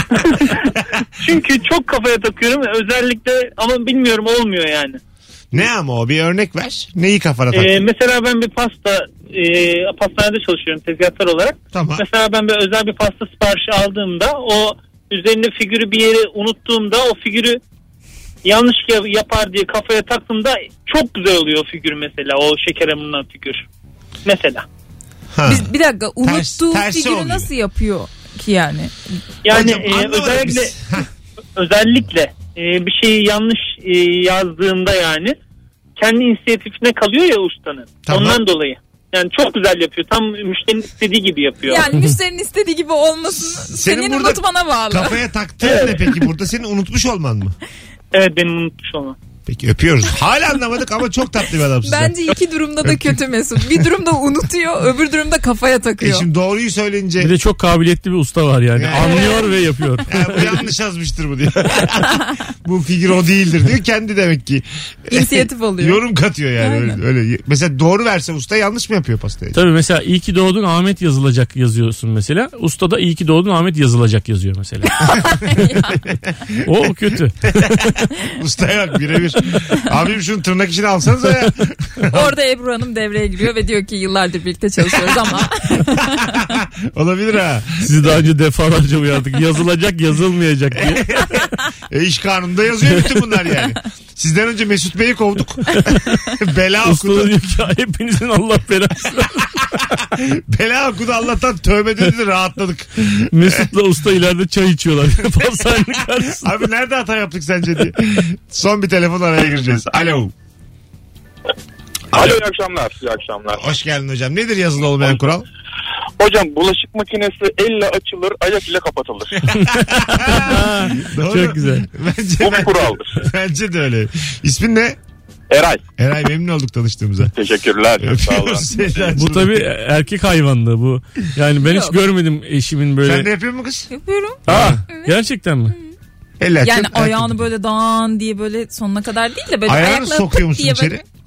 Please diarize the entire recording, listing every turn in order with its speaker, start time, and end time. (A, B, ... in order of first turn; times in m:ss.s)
0:00.2-0:00.5 A
0:00.8-0:01.0 B
0:01.2-0:05.0 A
0:05.5-0:07.8 B
0:07.5-0:17.6 A
0:11.7-0:12.0 B
0:18.4-0:23.6 A
0:24.2-0:24.6 A
0:25.3-0:25.7 B
0:25.5-0:28.9 C
0:26.2-0:27.5 B
0:29.4-0:30.8 A
0:29.5-0:31.1 B
0:31.6-0:35.3 A
0:36.0-0:41.8 A
0:38.0-0:38.4 B
0:41.7-0:45.2 C
0:43.4-0:47.6 B
0:48.1-0:49.2 A
0:49.5-0:53.2 B
0:51.8-0:56.3 C
0:56.0-0:57.3 B
0:57.2-1:00.6 D
0:58.8-0:59.5 B
0:59.0-0:59.5 C
1:00.1-1:09.6 B
1:05.1-1:06.0 C
1:06.6-1:07.0 C
1:09.5-1:15.0 D
1:15.0-1:16.0 C
1:15.6-1:16.5 B
1:16.6-1:17.9 D
1:17.5-1:22.3 B
1:22.1-1:26.4 C
1:24.8-1:25.4 B
1:26.1-1:27.9 B
1:27.8-1:31.2 D
1:30.8-1:37.3 B
1:36.8-1:39.6 D
1:39.8-1:43.7 B
1:43.3-1:46.5 D
1:46.4-1:50.3 B
1:52.1-1:53.7 E
1:53.5-1:55.5 B
1:56.2-1:59.4 E
1:59.5-2:05.0 B
1:59.5-2:01.9 D
2:02.4-2:03.1 E
2:05.5-2:05.8 E
2:06.0-2:07.3 B
2:07.3-2:09.1 E
2:08.0-2:09.7 B
2:09.2-2:13.3 D
2:11.6-2:12.0 C
2:13.0-2:13.9 B
2:13.9-2:15.1 C
2:14.5-2:15.8 D
2:14.5-2:14.8 B
2:16.4-2:17.5 B
2:16.6-2:21.0 C
2:19.7-2:21.0 B